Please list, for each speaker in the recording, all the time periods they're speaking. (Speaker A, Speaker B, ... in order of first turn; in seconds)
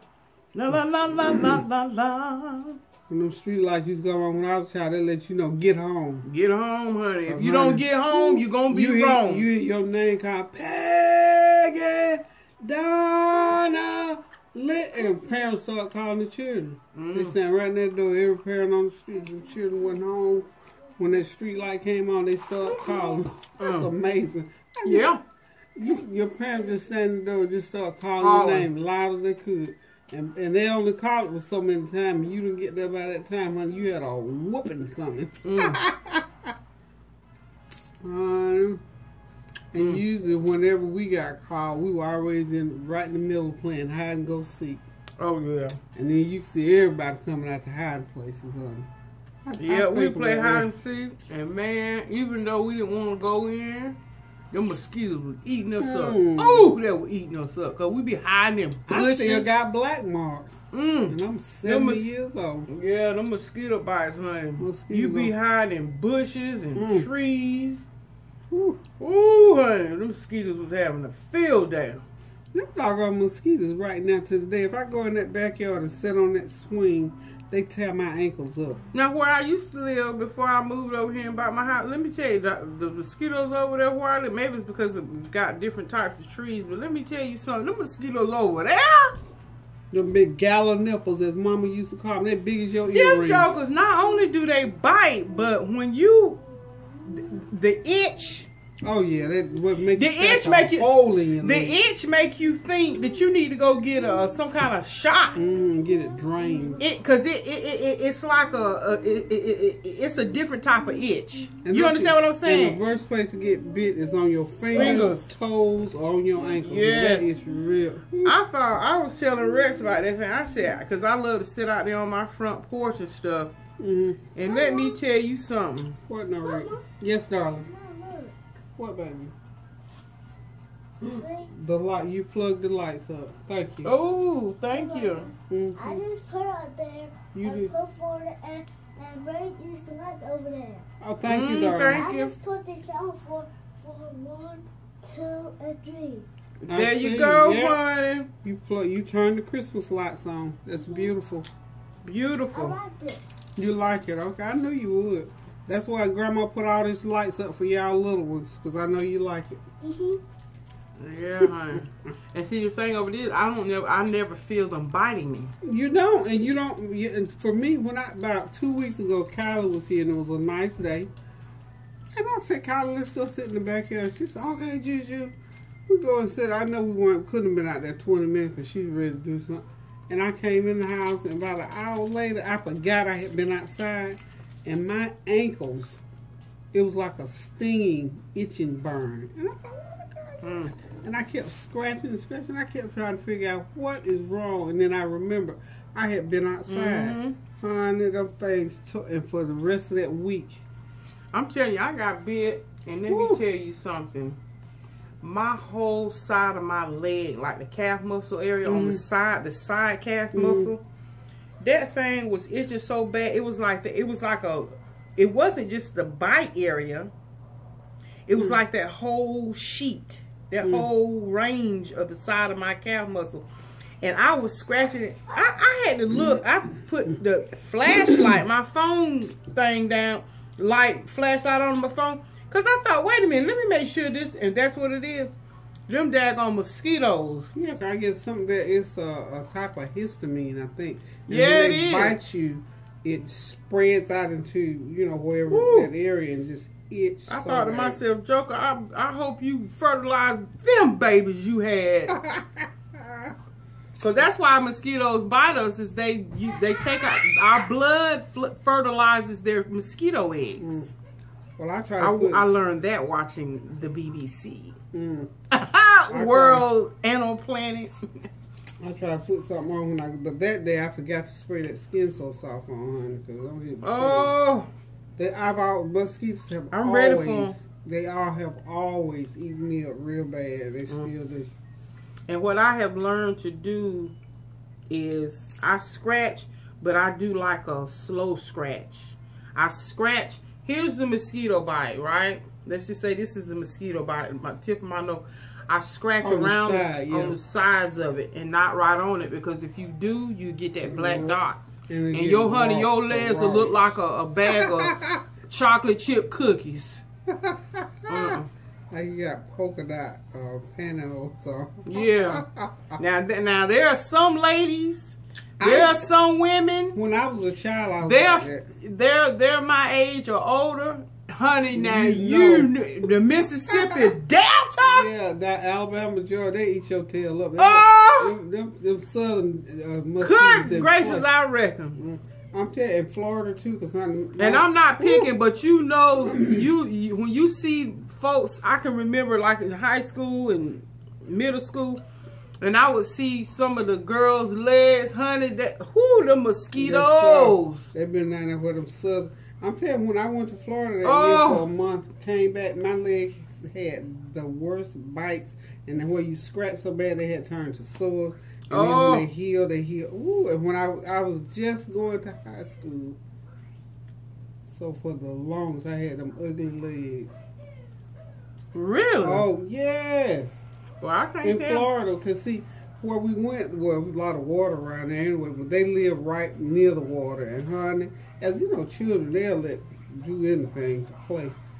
Speaker A: 0.5-2.8, 6.2-9.5, 16.9-17.3, 23.6-23.9, 24.8-25.2, 28.2-28.7, 35.4-35.8, 39.8-40.0, 45.2-45.8, 49.6-54.0, 54.5-59.5, 60.7-62.1, 62.7-67.8, 69.0-72.0, 78.9-89.2, 92.9-96.4, 97.0-98.5, 99.9-105.3, 106.8-112.8, 114.7-115.3, 116.6-117.3, 118.2-123.5, 124.3-126.0, 133.8-135.3, 141.2-142.2, 146.6-148.3, 152.0-152.8, 161.0-165.5, 190.4-190.7, 196.7-197.4, 201.3-204.4, 205.2-210.8, 211.6-217.1, 218.3-223.4, 224.0-235.3, 235.9-237.5, 241.3-242.2, 245.5-245.9, 247.3-252.2, 254.0-260.9, 262.0-264.8, 265.5-267.9, 273.8-274.7, 276.7-277.6, 282.3-284.1, 284.9-301.6, 302.1-307.0, 308.1-308.5, 311.9-312.4, 313.0-317.0, 318.0-325.1, 327.6-328.3, 330.2-332.0, 334.4-342.0, 342.6-347.9, 351.0-351.6, 358.7-359.3, 368.7-369.4, 371.0-371.9
Speaker B: 1.4-1.6, 3.1-6.2, 7.3-25.2, 25.8-36.5, 38.0-38.8, 39.7-44.8, 45.9-48.9, 49.4-50.7, 55.8-56.8, 58.9-62.7, 64.6-65.3, 66.8-67.1, 68.5-68.8, 72.5-78.8, 89.9-93.6, 98.8-101.8, 105.3-106.8, 111.6-118.4, 123.8-124.2, 126.1-127.7, 128.8-129.3, 131.0-133.9, 135.5-136.0, 137.3-137.7, 141.0-142.3, 146.7-147.8, 148.4-151.5, 153.6-159.6, 165.6-171.1, 172.1-175.3, 175.9-186.0, 186.7-200.6, 203.1-203.4, 208.6-209.0, 210.3-210.7, 220.6-220.9, 226.1-226.4, 227.9-228.4, 237.5-248.0, 252.1-253.3, 260.6-260.9, 261.6-262.6, 264.9-265.3, 266.1-266.7, 268.8-274.3, 275.2-281.5, 296.2-297.4, 300.8-303.8, 304.4-305.2, 307.3-308.4, 308.9-313.0, 315.6-316.1, 316.9-318.6, 321.7-323.1, 323.7-324.1, 324.8-331.3, 331.9-335.3, 336.3-336.6, 346.7-363.2, 364.7-367.4, 369.2-370.6, 371.4-381.6
Speaker C: 22.7-23.2, 106.4-106.8, 124.4-125.0, 126.4-126.9, 127.6-128.3, 131.0-131.5, 134.7-140.8, 141.9-146.3, 152.5-153.2, 159.8-160.2